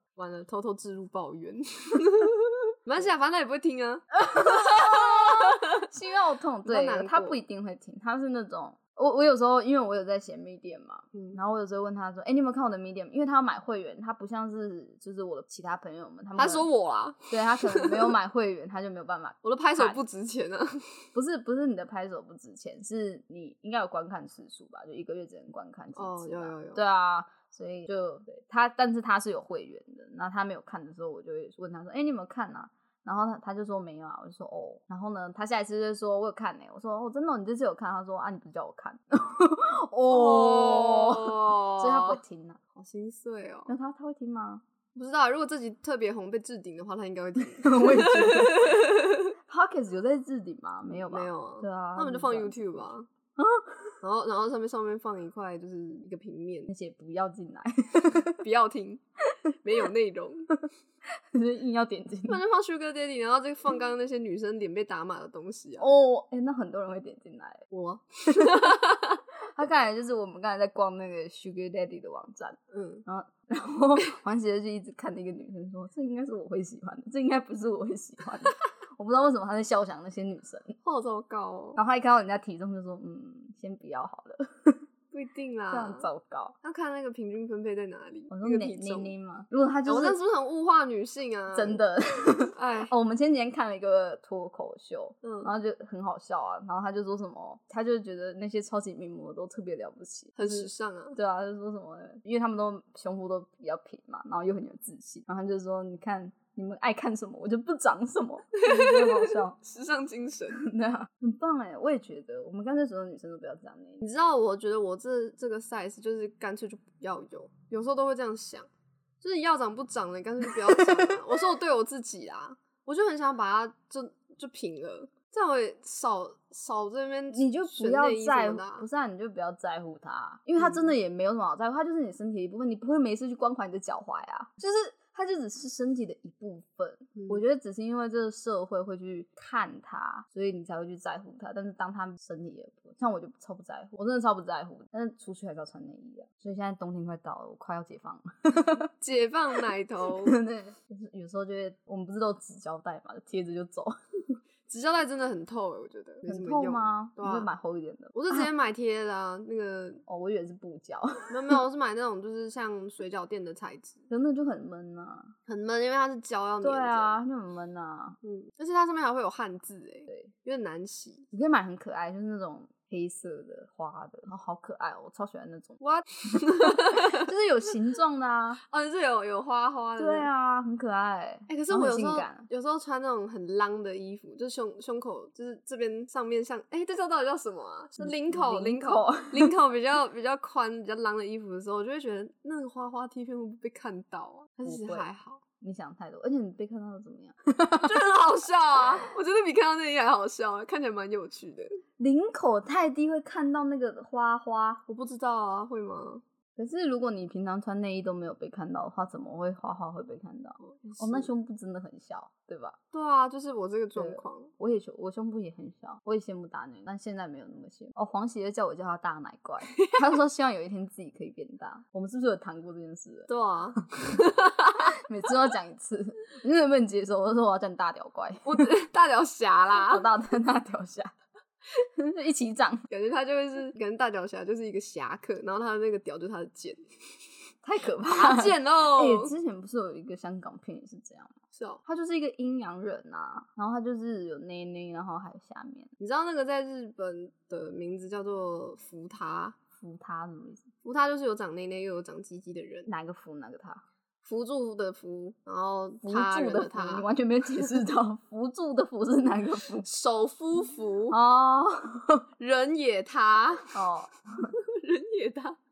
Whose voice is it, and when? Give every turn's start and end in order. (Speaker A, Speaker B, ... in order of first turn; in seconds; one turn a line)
Speaker A: 0.2-5.9
Speaker B: 4.2-16.7
Speaker A: 6.7-7.4
Speaker A: 11.1-11.4
Speaker A: 16.4-18.1
Speaker B: 17.3-20.0
Speaker A: 19.4-21.0
Speaker B: 21.1-42.6
Speaker A: 26.0-26.8
Speaker A: 40.1-42.2
Speaker A: 42.8-43.7
Speaker B: 43.7-44.6
Speaker A: 45.0-49.3
Speaker B: 47.5-48.8
Speaker B: 49.5-52.6
Speaker A: 50.9-53.1
Speaker B: 53.4-54.0
Speaker A: 54.0-56.7
Speaker B: 56.7-58.4
Speaker A: 58.4-59.0
Speaker A: 59.6-60.5
Speaker B: 61.3-62.4
Speaker A: 62.3-65.9
Speaker B: 65.8-67.7
Speaker A: 67.7-69.2
Speaker B: 68.3-68.8
Speaker B: 69.5-80.8
Speaker A: 72.7-73.0
Speaker A: 80.8-81.8
Speaker B: 81.8-84.8
Speaker A: 85.1-86.1
Speaker B: 85.7-86.6
Speaker A: 86.6-89.2
Speaker B: 88.3-90.2
Speaker A: 89.9-91.8
Speaker B: 91.5-109.6
Speaker A: 92.5-92.9
Speaker A: 95.2-95.5
Speaker A: 100.4-101.2
Speaker A: 108.6-110.7
Speaker B: 110.5-114.0
Speaker A: 114.0-118.7
Speaker A: 119.2-128.9
Speaker B: 127.3-148.9
Speaker A: 130.6-130.9
Speaker A: 137.2-137.4
Speaker A: 148.9-150.4
Speaker B: 150.1-154.4
Speaker A: 154.7-157.5
Speaker B: 156.3-158.5
Speaker A: 158.1-160.0
Speaker B: 160.1-161.6
Speaker A: 161.3-164.0
Speaker B: 164.1-165.3
Speaker A: 165.5-167.2
Speaker B: 166.6-168.2
Speaker A: 168.2-171.3
Speaker B: 171.3-175.8
Speaker A: 175.8-177.3
Speaker B: 176.3-178.6
Speaker A: 178.7-180.3
Speaker B: 180.0-182.5
Speaker A: 181.5-195.4
Speaker B: 188.0-189.5
Speaker B: 194.7-195.1
Speaker B: 195.6-198.1
Speaker A: 197.8-201.8
Speaker B: 202.0-204.8
Speaker A: 204.9-206.2
Speaker B: 206.6-212.8
Speaker A: 210.6-211.3
Speaker A: 212.9-214.5
Speaker B: 214.0-228.7
Speaker A: 223.3-224.9
Speaker A: 228.4-230.1
Speaker B: 229.8-231.2
Speaker B: 231.8-232.9
Speaker A: 232.9-236.8
Speaker B: 237.6-245.9
Speaker A: 238.1-239.3
Speaker A: 241.5-241.8
Speaker A: 246.0-249.6
Speaker B: 249.8-250.7
Speaker A: 250.8-252.9
Speaker B: 252.9-253.8
Speaker A: 254.2-257.1
Speaker B: 256.0-259.9
Speaker A: 259.8-261.2
Speaker B: 261.1-262.3
Speaker A: 262.4-263.7
Speaker B: 263.7-264.5
Speaker A: 264.4-265.6